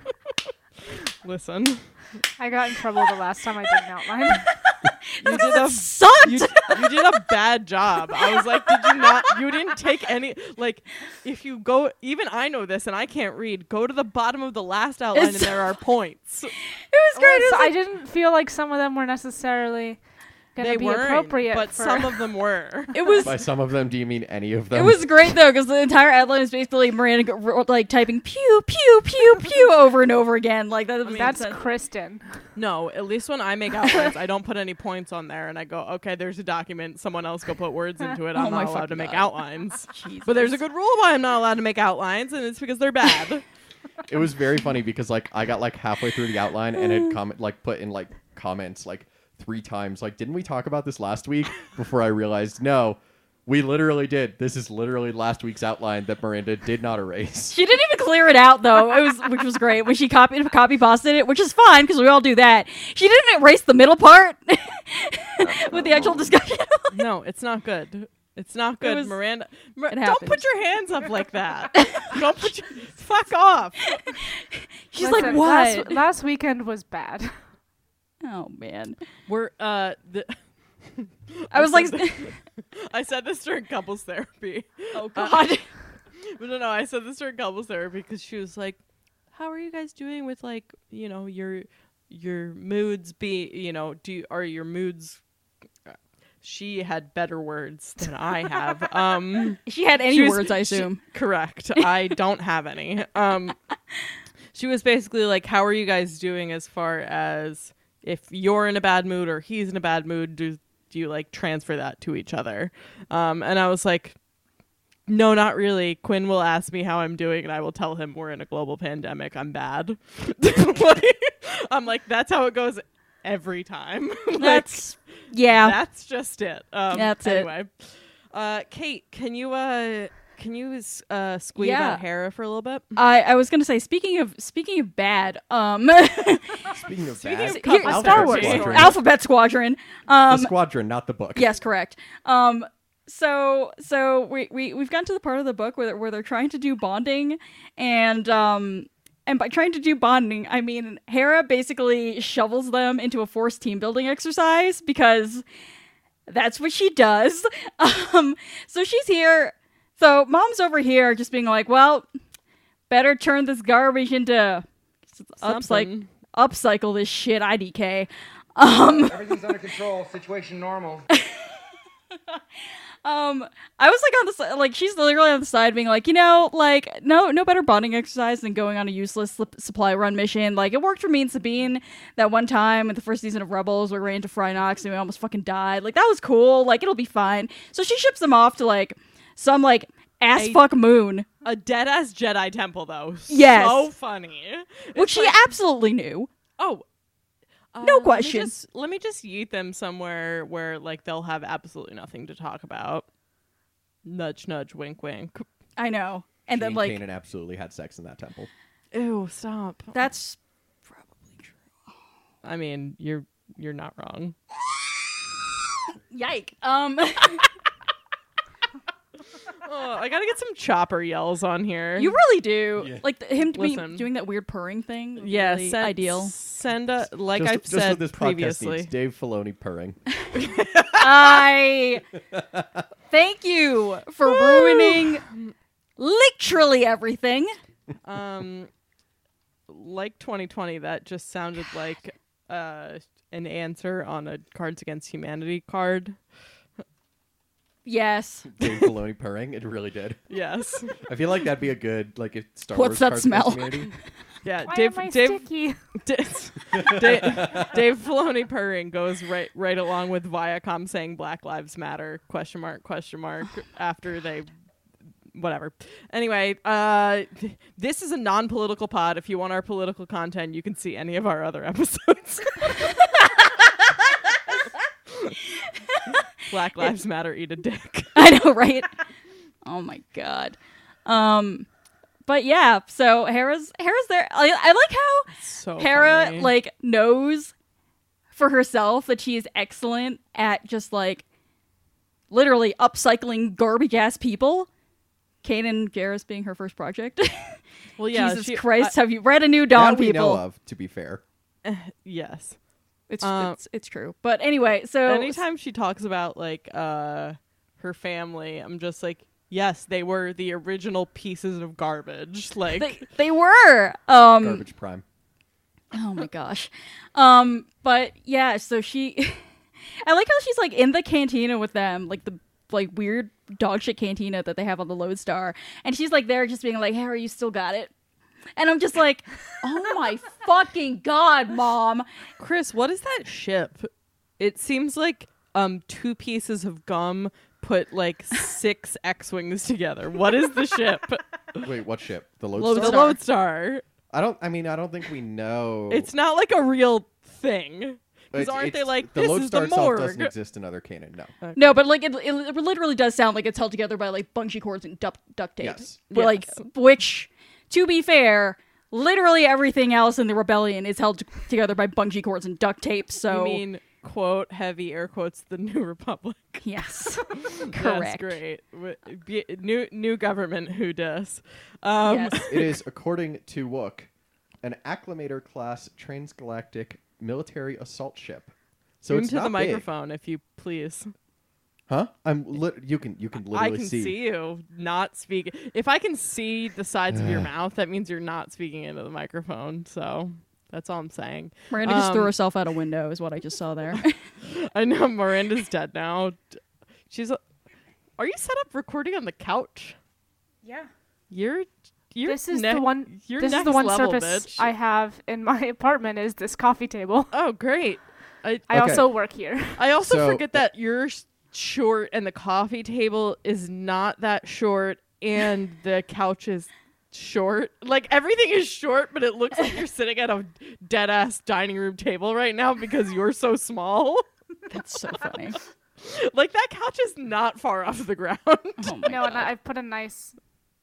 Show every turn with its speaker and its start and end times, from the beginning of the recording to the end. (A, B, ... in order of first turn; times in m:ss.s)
0:01.2-0:02.1 A
0:02.4-0:04.5 B
0:04.7-0:06.9 C
0:05.2-0:16.6 A
0:15.1-0:15.6 C
0:16.7-0:17.7 C
0:17.1-0:22.3 B
0:20.6-0:22.9 A
0:22.9-0:23.4 C
0:23.2-0:25.1 D
0:24.7-0:31.7 C
0:31.0-0:31.4 A
0:31.1-0:32.4 B
0:32.5-0:43.4 A
0:38.3-0:40.6 C
0:44.1-0:57.6 D
0:57.5-1:07.0 C
1:05.4-1:06.3 D
1:06.9-1:14.0 A
1:08.8-1:09.2 C
1:09.9-1:10.5 C
1:11.9-1:12.4 C
1:14.9-1:16.0 C
1:15.0-1:17.5 B
1:15.0-1:15.4 A
1:18.2-1:19.0 C
1:19.3-1:35.2 A
1:21.5-1:22.4 C
1:24.9-1:25.7 C
1:35.8-1:43.6 A
1:39.6-1:41.0 C
1:44.5-1:54.2 A
1:55.0-2:13.0 A
2:04.4-2:05.8 C
2:06.9-2:07.5 C
2:11.6-2:12.0 C
2:12.9-2:16.8 C
2:16.8-2:19.0 D
2:17.2-2:18.9 A
2:17.3-2:18.9 B
2:17.5-2:20.5 C
2:20.3-2:21.5 D
2:21.3-2:35.4 C
2:36.3-2:42.1 C
2:42.9-2:49.6 C
2:45.4-2:46.1 A
2:48.7-2:51.0 E
2:51.1-2:51.6 C
2:53.0-3:11.3 C
3:10.3-3:10.7 A
3:11.4-3:15.4 A
3:13.3-3:13.9 C
3:14.9-3:16.3 C
3:16.6-3:16.8 A
3:17.7-3:23.1 A
3:17.8-3:18.5 C
3:24.0-3:25.4 A
3:25.8-3:27.0 C
3:26.5-3:28.5 D
3:28.9-3:30.0 A
3:29.9-3:31.6 C
3:32.4-3:34.4 A
3:36.1-3:37.5 C
3:39.6-3:42.1 A
3:42.0-3:46.3 C
3:42.8-3:43.0 D
3:43.5-3:44.1 A
3:45.2-3:48.9 A
3:47.3-3:50.0 D
3:50.3-3:50.9 A
3:50.9-3:52.0 C
3:52.3-3:52.6 D
3:53.1-3:55.2 C
3:54.2-3:55.5 A
3:56.0-3:57.6 C
3:58.0-3:58.7 A
3:59.7-4:06.4 A
4:07.8-4:08.5 C
4:08.5-4:10.3 D
4:10.3-4:11.0 A
4:10.9-4:14.0 D
4:12.7-4:14.1 C
4:14.4-4:24.5 A
4:14.6-4:15.8 B
4:16.7-4:17.6 D
4:25.3-4:33.0 A
4:35.1-4:35.4 A
4:36.4-4:38.2 A
4:38.2-4:38.9 C
4:39.6-4:41.7 C
4:42.2-4:47.5 C
4:45.3-4:46.5 A
4:48.3-4:51.2 C
4:52.3-4:54.7 C
4:55.4-5:00.4 C
4:58.0-4:59.0 A
4:59.7-5:01.2 D
5:01.6-5:02.7 A
5:03.1-5:05.4 C
5:03.2-5:03.6 A
5:05.0-5:13.1 A
5:12.7-5:14.6 C
5:14.4-5:15.0 D
5:15.9-5:27.9 C
5:28.6-5:32.1 C
5:32.4-5:41.3 A
5:41.6-5:43.2 D
5:42.6-5:43.8 A
5:42.7-5:43.2 C
5:44.1-5:46.1 D
5:45.9-5:50.3 A
5:48.3-5:51.3 D
5:51.4-5:51.8 A
5:51.5-6:03.6 C
5:55.6-5:56.0 D
5:56.1-5:56.7 A
6:03.3-6:12.5 A
6:06.6-6:08.4 C
6:12.0-6:12.8 C
6:12.4-6:14.1 D
6:14.6-6:19.8 D
6:19.1-6:21.1 A
6:21.9-6:24.2 D
6:23.5-6:32.3 A
6:27.1-6:27.5 D
6:31.7-6:34.2 C
6:34.4-6:37.4 A
6:38.2-6:40.0 A
6:40.6-6:40.9 B
6:41.3-6:44.7 A
6:42.2-6:47.3 B
6:47.3-6:48.7 A
6:48.7-6:49.0 D
6:48.7-6:49.8 B
6:49.8-7:04.2 A
6:49.9-6:50.6 D
7:04.7-7:05.6 C
7:05.1-7:05.4 A
7:06.0-7:09.3 A
7:08.8-7:09.5 C
7:09.0-7:10.4 B